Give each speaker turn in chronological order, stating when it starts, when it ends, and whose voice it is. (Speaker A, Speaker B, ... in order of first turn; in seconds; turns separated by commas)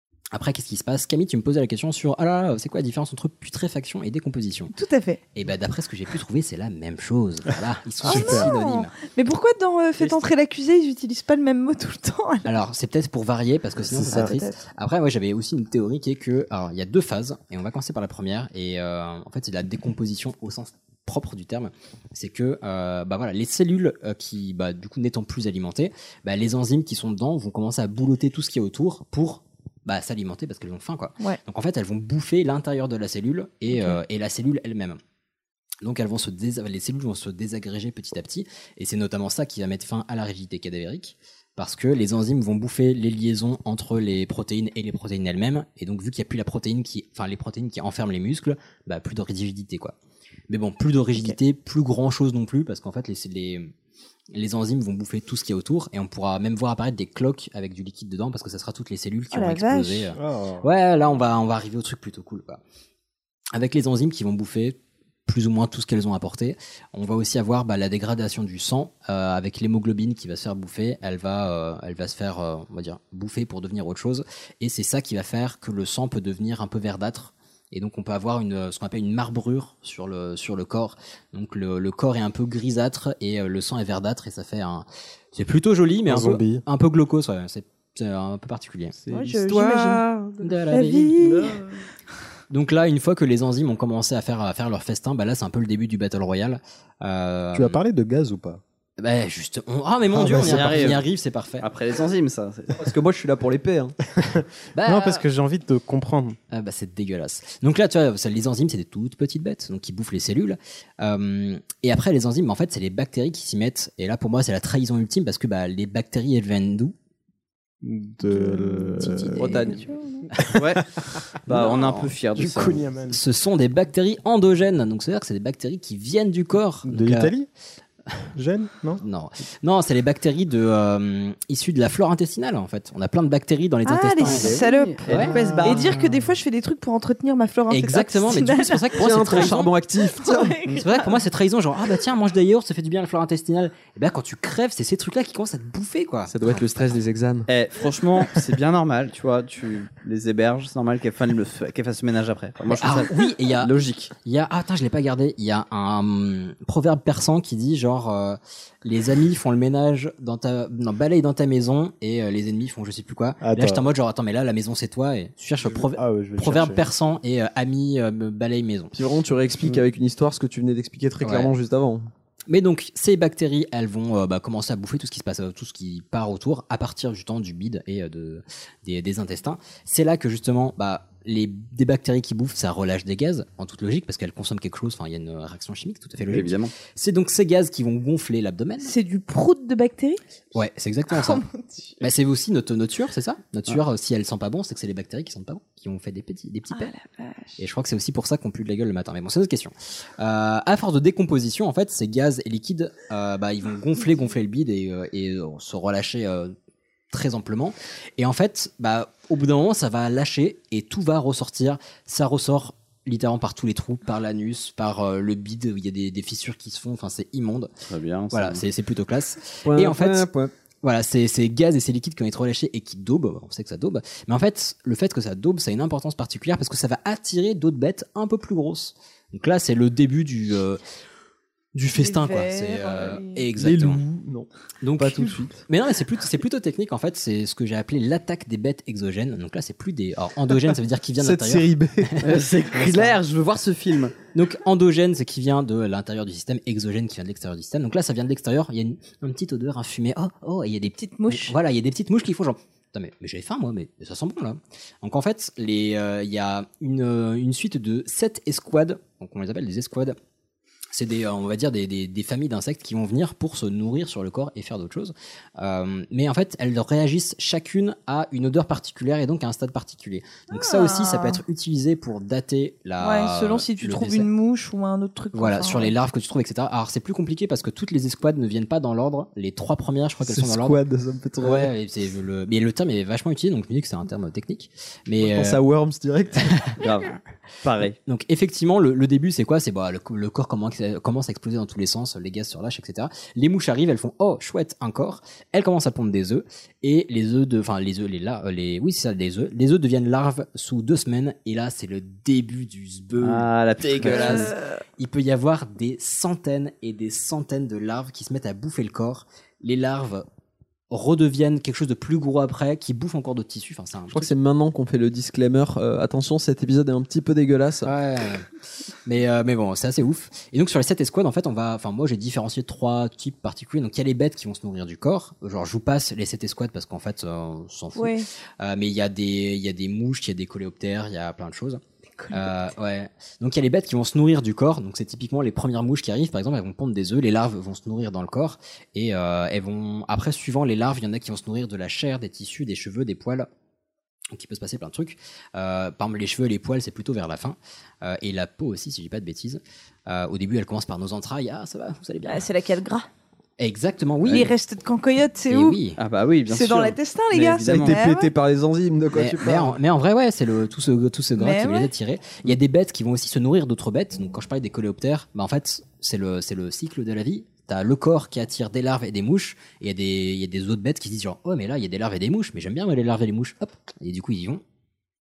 Speaker A: 0.3-4.7, Speaker B: 4.7-5.2, Speaker A: 5.3-8.9, Speaker B: 8.0-12.5, Speaker C: 8.0-8.5, Speaker A: 12.4-35.0, Speaker C: 13.8-14.3, Speaker B: 14.1-14.6, Speaker B: 33.7-34.0, Speaker A: 35.8-49.9, Speaker A: 50.5-53.7, Speaker A: 54.3-62.6, Speaker B: 59.3-60.1, Speaker C: 60.1-60.6, Speaker A: 63.5-89.0, Speaker C: 86.0-86.6, Speaker B: 89.1-91.7, Speaker A: 89.5-91.3, Speaker A: 92.5-97.8, Speaker C: 97.5-98.6, Speaker A: 99.0-101.7, Speaker C: 100.1-100.9, Speaker D: 100.2-101.1, Speaker D: 101.6-103.9, Speaker C: 104.2-106.4, Speaker A: 104.7-105.2, Speaker A: 106.5-116.9, Speaker C: 117.8-119.6, Speaker B: 118.4-120.3, Speaker E: 119.3-119.8, Speaker D: 120.5-120.9, Speaker D: 121.4-122.8, Speaker A: 121.5-122.4, Speaker C: 122.3-123.2, Speaker A: 123.1-127.3, Speaker C: 126.8-127.5, Speaker C: 128.3-129.0, Speaker A: 129.0-135.8, Speaker B: 133.8-139.0, Speaker D: 134.2-136.0, Speaker C: 135.3-135.6, Speaker A: 137.7-139.7, Speaker E: 139.0-140.6, Speaker B: 140.1-141.2, Speaker A: 140.7-146.3, Speaker E: 146.3-147.5, Speaker D: 147.5-154.1, Speaker A: 152.7-168.9, Speaker C: 163.4-163.8, Speaker C: 165.6-166.9, Speaker E: 168.9-172.1, Speaker A: 171.2-171.5, Speaker A: 172.5-188.9, Speaker D: 186.3-186.7, Speaker B: 188.8-190.2, Speaker A: 190.5-191.4, Speaker B: 191.2-191.6, Speaker A: 192.0-196.9, Speaker B: 196.7-197.6, Speaker A: 197.6-206.5, Speaker A: 207.1-217.7, Speaker D: 217.8-218.6, Speaker A: 218.3-220.3, Speaker E: 219.6-220.5, Speaker A: 220.8-230.8, Speaker A: 231.7-234.0, Speaker B: 231.9-233.5, Speaker E: 233.6-235.6, Speaker A: 234.8-243.2, Speaker D: 242.2-244.1, Speaker A: 244.3-260.1, Speaker B: 251.0-251.5, Speaker A: 260.9-274.3, Speaker B: 270.5-271.4, Speaker B: 273.0-275.9, Speaker A: 275.3-280.8, Speaker D: 280.2-281.7, Speaker A: 281.4-285.6, Speaker D: 285.2-288.0, Speaker A: 286.4-286.7, Speaker A: 288.0-310.2, Speaker D: 303.2-304.5, Speaker B: 304.3-304.6, Speaker A: 310.9-314.3, Speaker E: 314.1-317.9, Speaker A: 317.8-318.5, Speaker A: 319.0-343.5, Speaker B: 327.9-328.3, Speaker B: 332.2-332.7, Speaker A: 344.3-352.4, Speaker B: 352.2-353.1, Speaker A: 353.6-354.5, Speaker B: 354.3-355.8, Speaker A: 355.5-356.0, Speaker D: 356.0-359.8, Speaker B: 356.5-358.3, Speaker E: 357.6-358.5, Speaker A: 359.1-374.6, Speaker B: 361.4-361.9